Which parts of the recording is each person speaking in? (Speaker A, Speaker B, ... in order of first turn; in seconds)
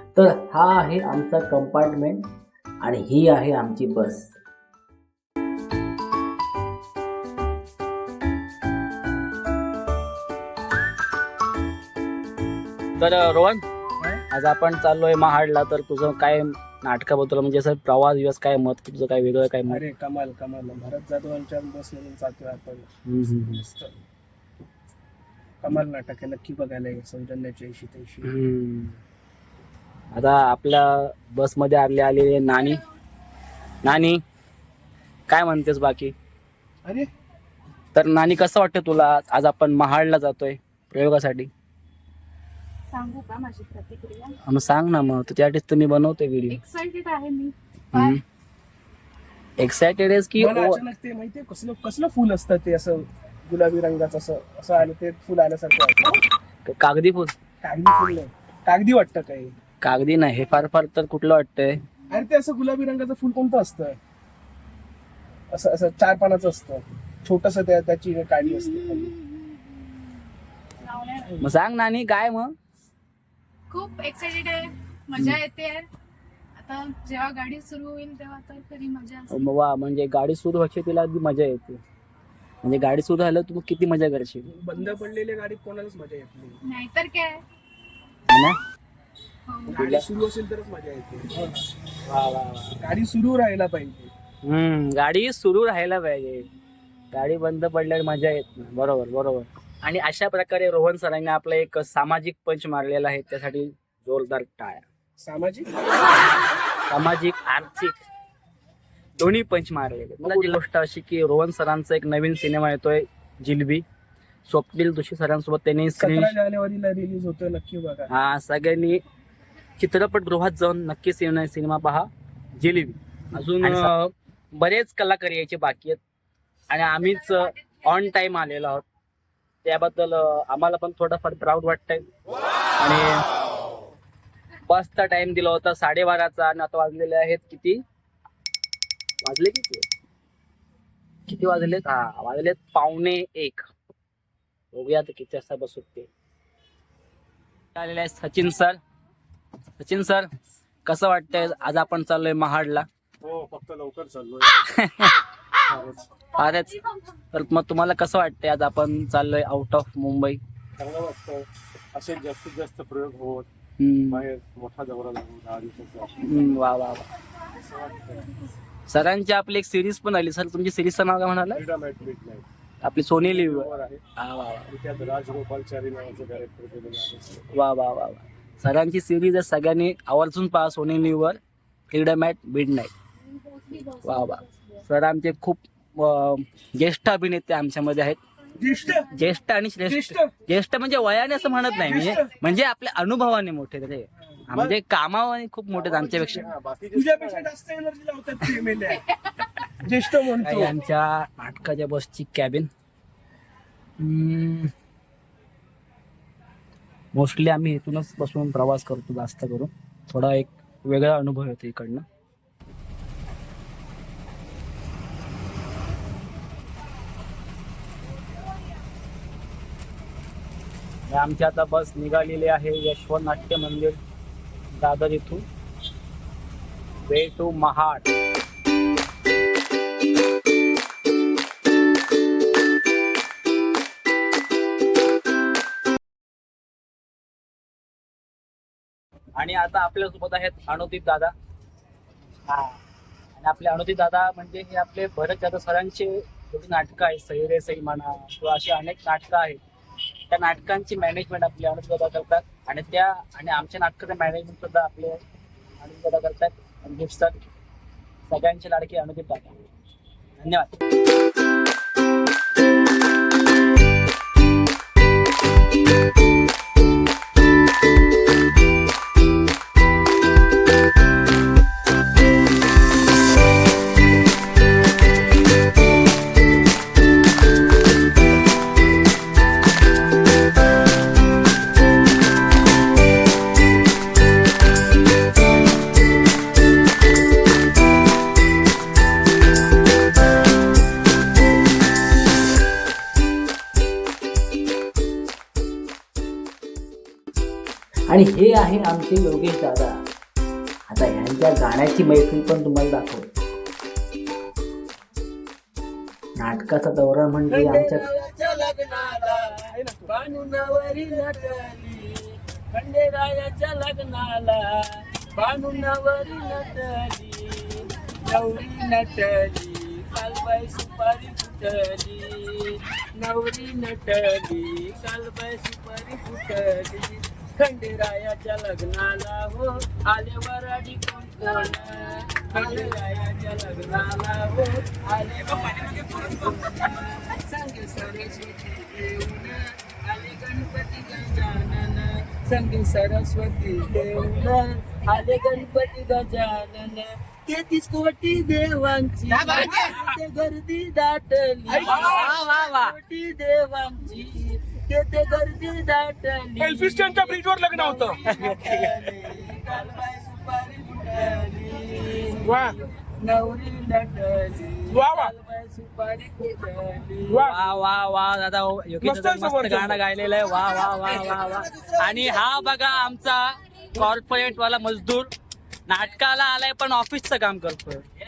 Speaker A: 0.1-2.2, 2.8-4.3, 13.0-13.6, 14.3-19.8, 23.1-23.6, 28.2-29.0, 30.1-32.8, 33.8-34.2, 35.3-36.1, 37.9-41.5, 44.4-46.6, 47.9-48.2, 49.6-50.8, 56.6-57.3, 59.8-61.8, 71.4-72.5, 75.2-75.4, 79.3-81.8, 82.6-84.5, 88.3-88.6, 89.8-90.0, 92.1-92.7, 94.4-96.5, 97.1-104.8, 106.9-107.9, 109.2-113.8, 114.5-116.3, 118.1-119.0, 119.8-126.0, 126.7-128.8, 129.6-132.1, 132.8-133.2, 134.7-137.8, 139.2-139.8, 141.3-143.6, 144.7-146.1, 147.7-148.8, 149.8-150.3, 150.8-152.8, 154.6-155.2, 156.3-156.8, 157.3-160.4, 163.8-164.2, 166.2-167.1, 168.9-171.6, 172.8-174.7, 177.5-181.4, 181.9-182.9, 183.9-188.2, 189.1-196.5, 200.4-202.7, 204.0-204.7, 207.1-212.0, 221.1-224.0, 224.7-225.4, 227.1-228.1, 239.4-241.3, 242.5-242.8, 243.3-249.6, 250.3-255.2, 255.8-257.4, 258.3-259.5, 260.4-260.7, 298.1-300.0, 300.9-303.3, 306.4-308.1, 351.9-352.9, 367.4-375.3, 375.9-378.0
Speaker B: 19.7-22.9, 23.6-23.9, 25.6-28.3, 50.4-56.2, 57.6-59.5, 62.1-64.0, 65.5-69.2, 84.5-86.6, 89.7-91.6, 92.8-94.1, 105.2-105.7, 116.0-118.1, 123.6-123.9, 188.5-189.1, 189.8-190.3, 191.8-192.3, 196.9-199.1, 199.8-200.8, 309.6-310.2, 351.7-352.3, 356.6-358.2, 362.4-362.8, 364.9-365.3, 367.3-367.6, 369.0-370.0
Speaker C: 42.9-44.3, 46.5-48.2, 69.3-69.8, 70.8-71.3, 73.7-75.9, 76.6-79.3, 86.7-87.4, 89.5-89.8, 183.3-184.6
Speaker D: 153.2-154.5, 155.7-156.0, 160.8-163.5, 164.1-166.3, 167.6-168.2, 171.5-172.4, 173.2-174.0, 174.7-177.4, 195.7-197.4
Speaker E: 307.5-367.5